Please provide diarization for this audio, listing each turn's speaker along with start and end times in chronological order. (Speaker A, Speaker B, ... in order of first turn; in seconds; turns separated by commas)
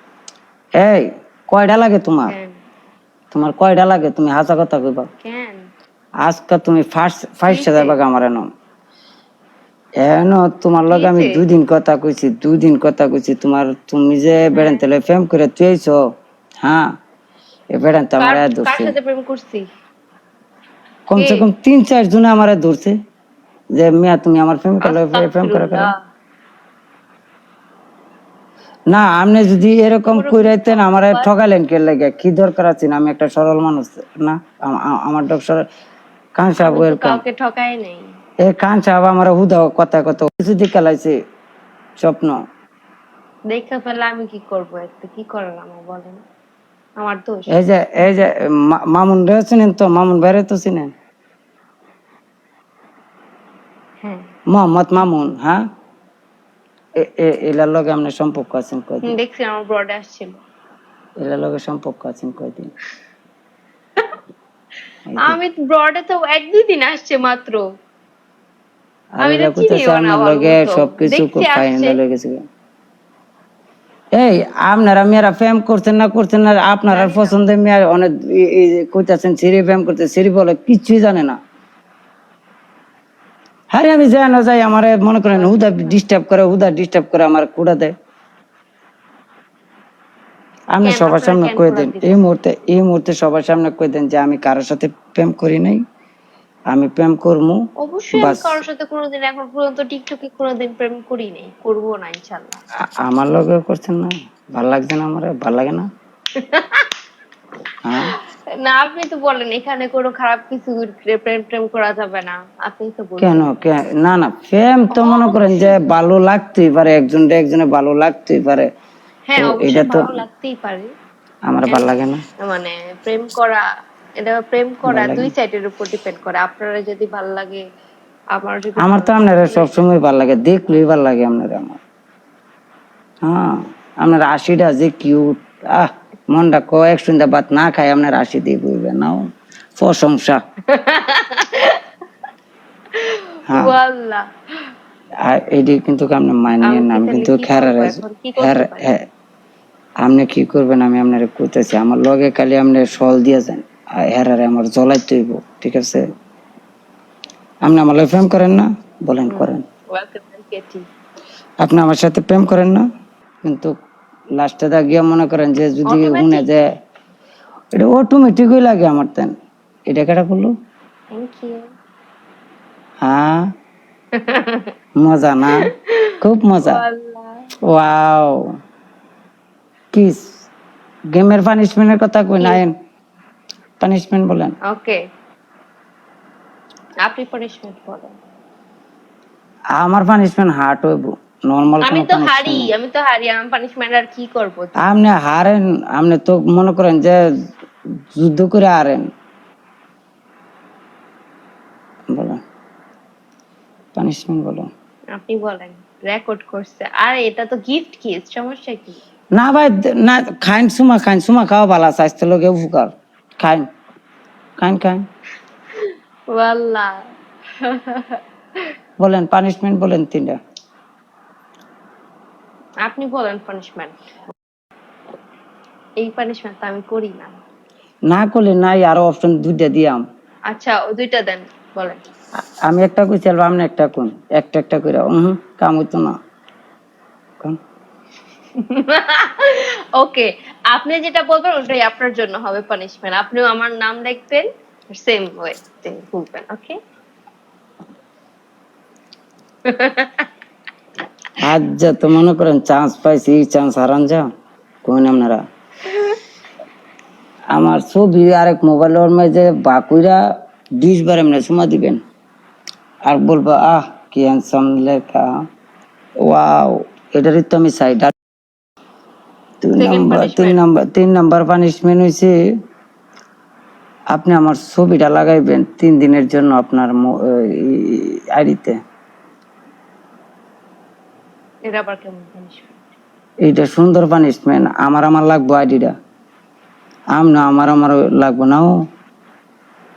Speaker A: 0.7-2.3, Speaker B: 2.3-2.6, Speaker A: 3.3-5.1, Speaker B: 5.2-5.6, Speaker A: 6.2-8.5, Speaker B: 7.5-8.0, Speaker A: 10.0-16.0, Speaker B: 10.9-11.4, Speaker B: 14.5-14.8, Speaker A: 16.6-16.9, Speaker A: 17.7-18.9, Speaker B: 18.2-19.7, Speaker A: 21.1-23.0, Speaker B: 21.1-21.4, Speaker A: 23.7-25.9, Speaker B: 24.8-25.9, Speaker A: 28.9-35.6, Speaker B: 30.1-31.3, Speaker A: 36.4-37.2, Speaker B: 36.6-38.1, Speaker A: 38.4-41.1, Speaker A: 42.0-42.4, Speaker B: 43.5-46.2, Speaker B: 47.0-47.6, Speaker A: 47.5-50.9, Speaker A: 54.5-55.7, Speaker A: 57.0-59.1, Speaker B: 59.0-60.4, Speaker A: 61.2-62.7, Speaker A: 65.1-65.4, Speaker B: 65.2-67.6, Speaker A: 69.2-72.4, Speaker B: 69.2-72.0, Speaker A: 74.1-81.4, Speaker B: 76.9-77.3, Speaker A: 83.7-87.9, Speaker B: 85.3-86.0, Speaker A: 90.7-95.8, Speaker B: 90.8-92.2, Speaker A: 96.7-97.6, Speaker B: 97.8-102.6, Speaker A: 98.1-98.6, Speaker A: 103.0-105.9, Speaker B: 106.3-106.9, Speaker A: 107.8-108.1, Speaker B: 108.1-113.5, Speaker A: 113.2-118.7, Speaker B: 114.9-115.8, Speaker B: 119.3-120.9, Speaker A: 119.4-120.2, Speaker A: 121.5-122.2, Speaker B: 122.4-123.6, Speaker B: 124.2-127.6, Speaker A: 124.8-125.3, Speaker B: 128.3-129.8, Speaker A: 128.8-131.8, Speaker A: 133.2-140.4, Speaker B: 140.7-141.8, Speaker B: 142.9-144.2, Speaker A: 143.5-143.7, Speaker A: 145.2-149.0, Speaker B: 146.6-148.9, Speaker A: 150.0-156.1, Speaker A: 157.6-159.6, Speaker B: 159.2-160.8, Speaker A: 161.6-162.8, Speaker A: 163.4-163.7, Speaker A: 164.3-166.7, Speaker B: 165.9-166.5, Speaker A: 167.7-169.3, Speaker A: 169.9-170.5, Speaker B: 171.1-171.7, Speaker A: 173.0-173.5, Speaker B: 174.1-174.7, Speaker A: 175.0-175.7, Speaker B: 175.6-177.5, Speaker A: 176.2-176.8, Speaker A: 177.6-178.5, Speaker A: 179.9-180.3, Speaker A: 181.1-182.7, Speaker A: 183.8-184.6, Speaker B: 184.6-185.0, Speaker B: 187.0-188.1, Speaker A: 189.7-192.7, Speaker B: 191.8-194.8, Speaker A: 194.8-197.2, Speaker A: 198.1-199.1, Speaker A: 202.1-202.4, Speaker A: 203.9-204.7, Speaker B: 205.1-209.0, Speaker A: 209.3-213.7, Speaker A: 214.6-215.1, Speaker B: 215.8-216.9, Speaker B: 217.6-218.2, Speaker A: 219.0-220.4, Speaker B: 222.8-223.9, Speaker B: 226.0-227.3, Speaker A: 228.1-230.0, Speaker B: 230.5-232.0, Speaker A: 232.6-236.2, Speaker B: 238.6-246.8, Speaker B: 249.6-250.3, Speaker A: 251.4-254.3, Speaker A: 254.8-255.4, Speaker A: 257.5-260.2, Speaker A: 260.8-262.0, Speaker A: 263.0-265.3, Speaker A: 266.2-268.1, Speaker A: 269.6-272.3, Speaker B: 269.8-270.6, Speaker A: 274.1-278.8, Speaker B: 281.6-282.9, Speaker A: 283.4-285.9, Speaker A: 287.1-288.8